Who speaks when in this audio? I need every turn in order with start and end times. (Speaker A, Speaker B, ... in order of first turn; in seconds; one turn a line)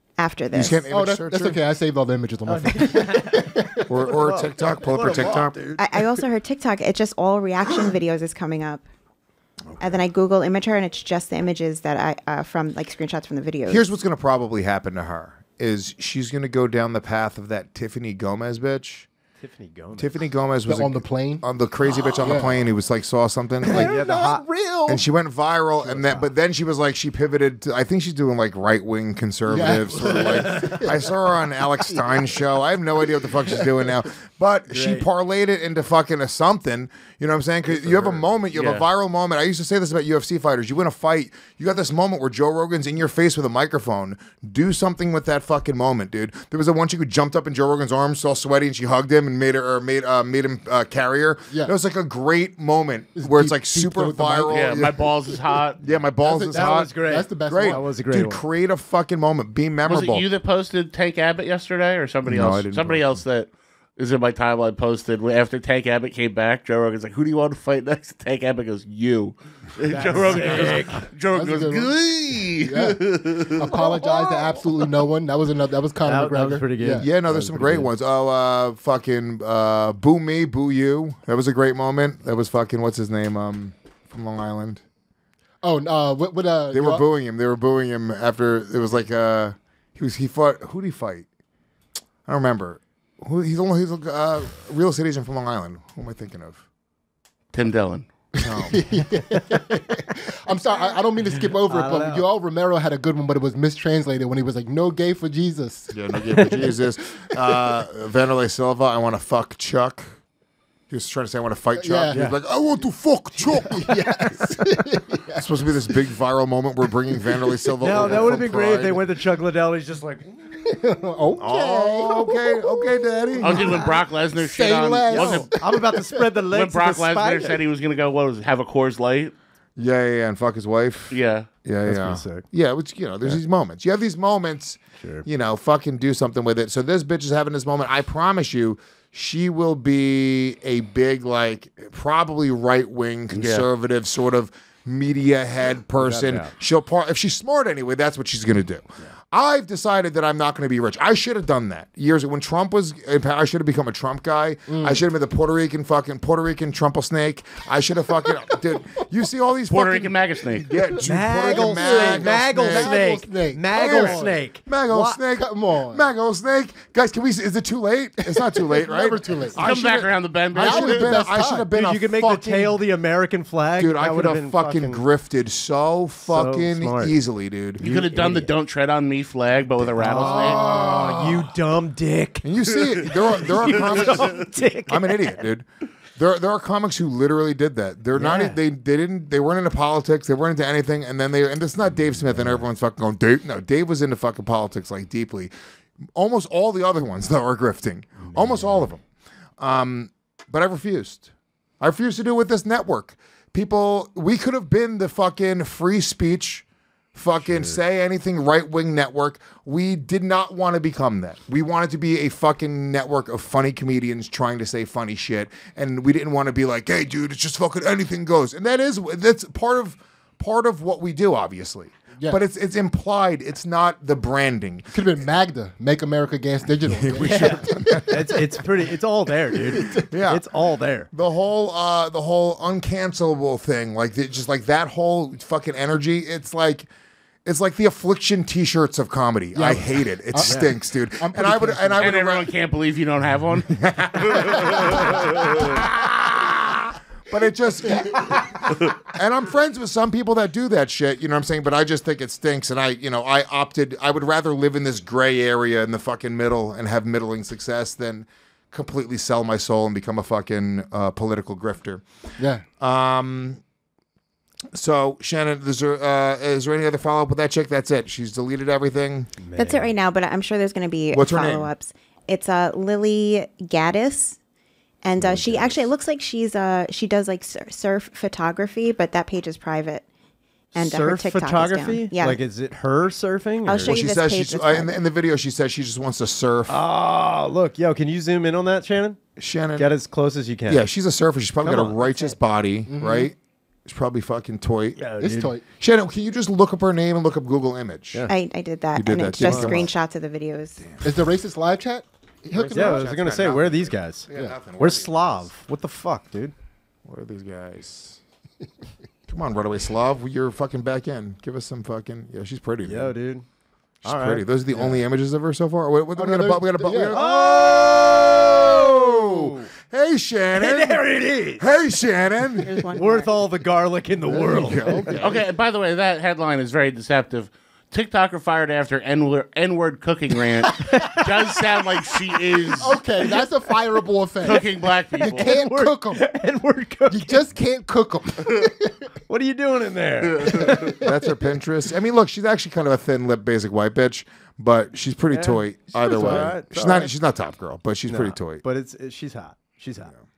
Speaker A: 0.2-0.8
Speaker B: 0.5-1.6
Speaker C: 0.9-3.8
Speaker D: 2.5-5.8
Speaker B: 3.9-5.6
Speaker A: 5.8-8.8
Speaker B: 9.7-10.0
Speaker A: 9.8-13.8
Speaker B: 13.7-19.1
Speaker D: 19.4-20.2
Speaker B: 20.0-23.9
Speaker C: 20.7-21.4
Speaker C: 22.2-22.6
Speaker D: 23.6-24.4
Speaker C: 23.6-25.1
Speaker B: 24.9-55.0
Speaker D: 25.7-26.3
Speaker C: 29.5-31.1
Speaker D: 29.9-30.8
Speaker C: 31.6-32.3
Speaker D: 34.7-35.1
Speaker D: 37.6-38.2
Speaker E: 38.5-38.9
Speaker C: 51.5-51.7
Speaker C: 53.1-54.8
Speaker E: 54.5-55.8
Speaker B: 55.8-56.9
Speaker C: 56.3-56.5
Speaker D: 56.3-58.4
Speaker C: 57.1-57.8
Speaker B: 57.5-60.2
Speaker E: 59.8-74.4
Speaker B: 62.2-63.2
Speaker D: 69.9-71.1
Speaker C: 71.3-72.0
Speaker C: 72.6-77.1
Speaker D: 76.0-77.9
Speaker B: 77.0-84.8
Speaker C: 85.6-87.1
Speaker B: 86.7-91.3
Speaker B: 92.2-96.7
Speaker E: 97.5-98.1
Speaker C: 98.3-105.9
Speaker B: 98.4-98.8
Speaker D: 101.3-102.3
Speaker B: 105.9-110.2
Speaker D: 106.2-106.7
Speaker B: 110.9-114.0
Speaker C: 111.7-112.2
Speaker D: 112.1-112.4
Speaker C: 113.4-115.9
Speaker B: 115.4-119.0
Speaker D: 117.8-120.5
Speaker C: 120.6-126.3
Speaker B: 121.4-123.8
Speaker E: 123.4-125.5
Speaker D: 125.5-127.6
Speaker E: 126.5-129.3
Speaker B: 129.8-162.9
Speaker E: 131.1-131.5
Speaker D: 131.8-132.4
Speaker D: 135.0-135.2
Speaker E: 143.3-143.7
Speaker D: 145.9-146.5
Speaker C: 154.7-155.0
Speaker E: 159.7-160.7
Speaker D: 161.0-165.3
Speaker C: 161.5-164.4
Speaker B: 163.7-172.8
Speaker C: 165.3-166.1
Speaker C: 168.2-169.6
Speaker E: 169.6-171.2
Speaker C: 170.5-171.7
Speaker D: 170.7-170.9
Speaker D: 171.7-175.0
Speaker B: 173.8-177.9
Speaker D: 176.2-177.2
Speaker E: 177.8-180.6
Speaker D: 177.8-178.5
Speaker D: 179.8-185.5
Speaker B: 180.1-181.4
Speaker B: 182.4-184.3
Speaker B: 184.9-195.5
Speaker D: 188.1-188.6
Speaker D: 191.9-192.7
Speaker B: 196.1-199.0
Speaker D: 198.3-198.9
Speaker B: 199.6-201.3
Speaker B: 201.8-224.9
Speaker D: 207.4-207.8
Speaker C: 222.2-222.4
Speaker C: 224.9-228.5
Speaker B: 226.9-228.1
Speaker D: 227.2-231.1
Speaker C: 229.5-230.1
Speaker B: 230.1-230.4
Speaker B: 231.1-236.9
Speaker B: 237.4-242.5
Speaker C: 239.5-242.1
Speaker D: 240.4-240.7
Speaker E: 242.0-245.7
Speaker B: 243.7-262.0
Speaker C: 244.5-245.2
Speaker C: 262.4-262.6
Speaker B: 262.8-263.6
Speaker B: 264.7-269.3
Speaker D: 269.4-269.9
Speaker A: 269.5-274.4
Speaker B: 271.1-271.7
Speaker A: 275.0-280.0
Speaker B: 275.2-275.9
Speaker A: 280.7-282.4
Speaker D: 280.7-284.0
Speaker A: 283.6-285.0
Speaker B: 283.8-286.8
Speaker D: 286.7-290.9
Speaker B: 289.4-289.9
Speaker B: 290.7-295.0
Speaker D: 291.6-292.4
Speaker C: 292.9-293.3
Speaker D: 294.9-295.5
Speaker C: 295.2-295.6
Speaker B: 295.8-298.3
Speaker A: 298.3-300.8
Speaker B: 298.9-299.9
Speaker D: 299.4-299.9
Speaker B: 300.8-301.2
Speaker C: 301.0-303.0
Speaker B: 302.5-305.5
Speaker D: 302.7-306.5
Speaker C: 304.3-304.7
Speaker B: 307.1-308.2
Speaker B: 309.3-313.1
Speaker D: 312.8-313.4
Speaker B: 314.0-321.0
Speaker D: 314.0-315.0
Speaker C: 316.1-317.2
Speaker D: 317.1-319.7
Speaker D: 320.5-322.0
Speaker B: 321.6-322.8
Speaker A: 322.6-323.4
Speaker D: 322.9-325.2
Speaker C: 324.3-325.2
Speaker B: 324.3-325.4
Speaker E: 325.2-333.0
Speaker D: 330.8-331.6
Speaker C: 332.8-336.2
Speaker D: 333.4-334.0
Speaker E: 334.4-335.5
Speaker D: 335.1-337.4
Speaker C: 337.1-339.1
Speaker D: 339.3-341.3
Speaker E: 340.3-341.0
Speaker B: 341.0-348.6
Speaker D: 345.3-347.1
Speaker D: 348.0-350.1